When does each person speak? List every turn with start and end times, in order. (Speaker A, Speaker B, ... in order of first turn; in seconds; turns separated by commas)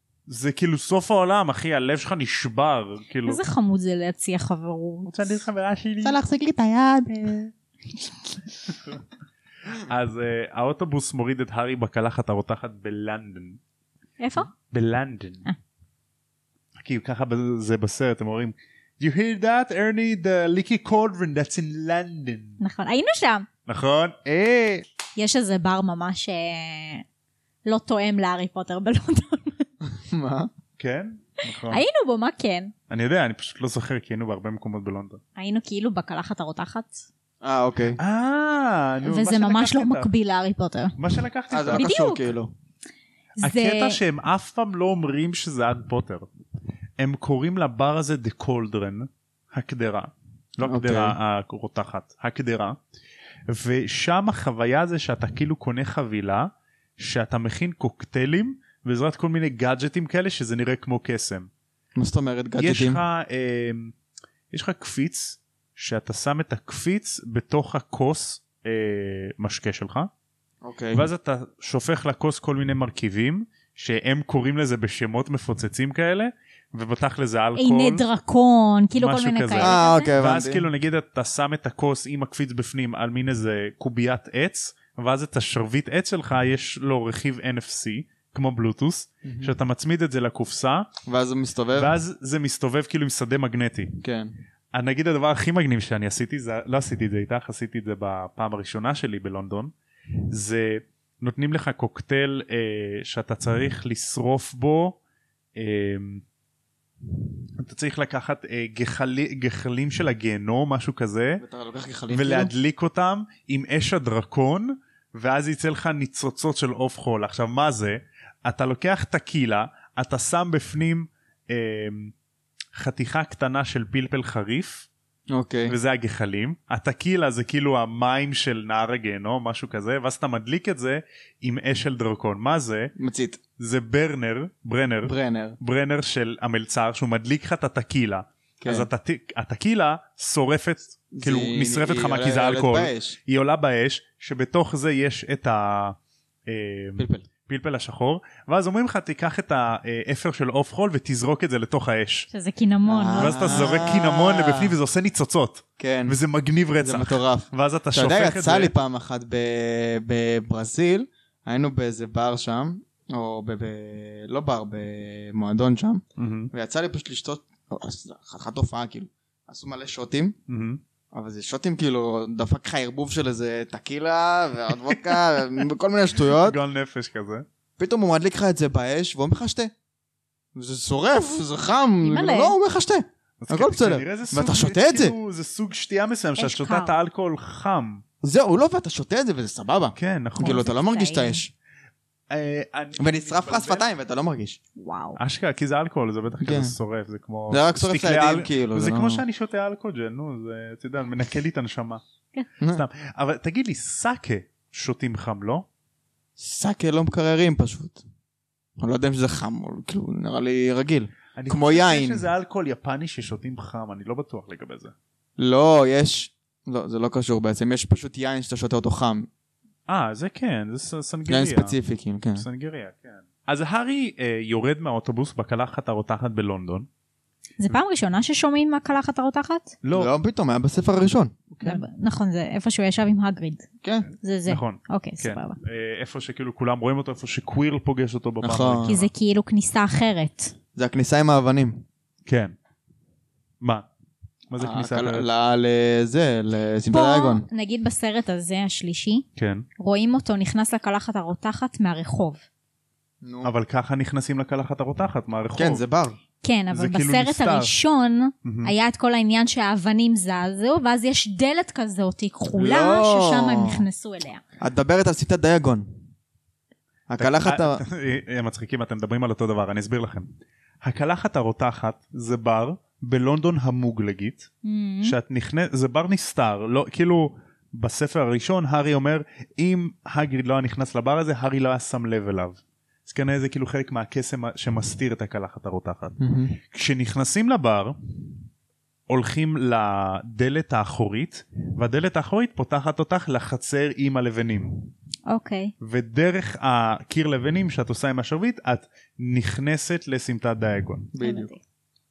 Speaker A: 0.3-3.4, Speaker B: 3.3-5.3, Speaker A: 5.1-6.2, Speaker C: 6.0-7.5, Speaker A: 9.8-13.6, Speaker B: 14.2-14.5, Speaker A: 14.5-15.5, Speaker A: 16.8-22.6, Speaker B: 22.6-23.5, Speaker A: 23.7-24.9, Speaker B: 25.2-27.0, Speaker B: 27.7-29.7, Speaker C: 29.8-30.5, Speaker A: 30.8-31.8, Speaker B: 31.7-32.7, Speaker A: 32.9-35.2, Speaker B: 35.4-37.0, Speaker C: 37.4-38.0, Speaker A: 38.0-40.1, Speaker B: 39.0-41.0, Speaker A: 41.0-41.9, Speaker C: 41.5-42.5, Speaker B: 41.7-42.3, Speaker B: 43.4-44.0, Speaker A: 43.4-46.3, Speaker A: 47.0-52.8, Speaker C: 50.6-51.2, Speaker A: 53.5-61.5, Speaker C: 62.0-63.0, Speaker A: 62.6-63.9, Speaker A: 64.5-70.1, Speaker C: 70.6-71.1, Speaker A: 70.9-78.0, Speaker B: 77.6-80.1, Speaker A: 79.0-90.9, Speaker C: 79.6-80.7, Speaker C: 89.2-89.5, Speaker C: 91.1-91.9, Speaker A: 91.8-93.9, Speaker C: 94.0-94.3, Speaker A: 94.7-99.7, Speaker A: 100.3-105.0, Speaker A: 105.6-106.2, Speaker A: 107.6-111.4, Speaker C: 111.4-112.5, Speaker A: 112.1-122.1, Speaker A: 122.8-124.9, Speaker C: 125.3-125.8, Speaker A: 125.7-132.9, Speaker C: 133.0-133.4, Speaker A: 133.6-152.3, Speaker C: 135.0-135.6, Speaker C: 138.6-138.9, Speaker C: 141.1-143.2, Speaker C: 147.0-147.3, Speaker B: 152.3-153.8, Speaker C: 152.9-154.8, Speaker A: 153.2-158.7, Speaker C: 155.8-156.2, Speaker C: 156.8-170.4, Speaker A: 166.2-166.5, Speaker A: 170.5-170.8, Speaker C: 171.1-176.6, Speaker A: 176.2-177.4, Speaker C: 177.8-179.7, Speaker C: 180.6-185.2, Speaker B: 182.0-182.5, Speaker A: 183.4-188.0, Speaker B: 186.4-186.9, Speaker C: 188.2-191.5, Speaker A: 190.0-190.7, Speaker B: 190.4-191.4, Speaker A: 192.3-193.9, Speaker C: 193.0-194.6, Speaker B: 194.8-195.2, Speaker A: 195.2-202.0, Speaker C: 196.4-196.8, Speaker C: 197.5-199.2, Speaker A: 202.7-205.7, Speaker C: 206.4-208.0, Speaker C: 208.8-212.2, Speaker A: 211.4-214.9, Speaker C: 215.4-219.3, Speaker A: 219.9-221.8, Speaker C: 221.3-222.4, Speaker A: 222.4-226.9, Speaker B: 227.6-229.8, Speaker A: 229.8-230.1, Speaker C: 229.9-231.4, Speaker A: 231.5-231.8, Speaker B: 231.6-233.7, Speaker C: 233.8-234.1, Speaker B: 234.2-235.6, Speaker A: 234.5-239.1, Speaker C: 238.4-238.9, Speaker B: 238.8-240.5, Speaker C: 240.8-241.8, Speaker A: 242.3-242.6, Speaker A: 243.6-243.9, Speaker A: 244.5-245.3, Speaker C: 244.6-247.4, Speaker B: 246.9-249.2, Speaker A: 249.4-249.7, Speaker B: 249.8-252.4, Speaker C: 253.2-253.5, Speaker A: 253.4-255.8, Speaker C: 255.6-256.2, Speaker B: 256.4-264.4, Speaker A: 256.7-257.7, Speaker A: 258.4-258.7, Speaker C: 262.6-263.8, Speaker C: 264.6-265.9, Speaker C: 267.1-267.8, Speaker A: 267.2-270.3, Speaker A: 270.8-274.5, Speaker B: 274.6-275.2, Speaker A: 275.0-286.2, Speaker C: 286.2-286.6, Speaker A: 286.7-287.9, Speaker A: 289.1-294.8, Speaker B: 295.3-295.7, Speaker A: 295.8-301.1, Speaker C: 301.1-301.5, Speaker B: 301.2-301.6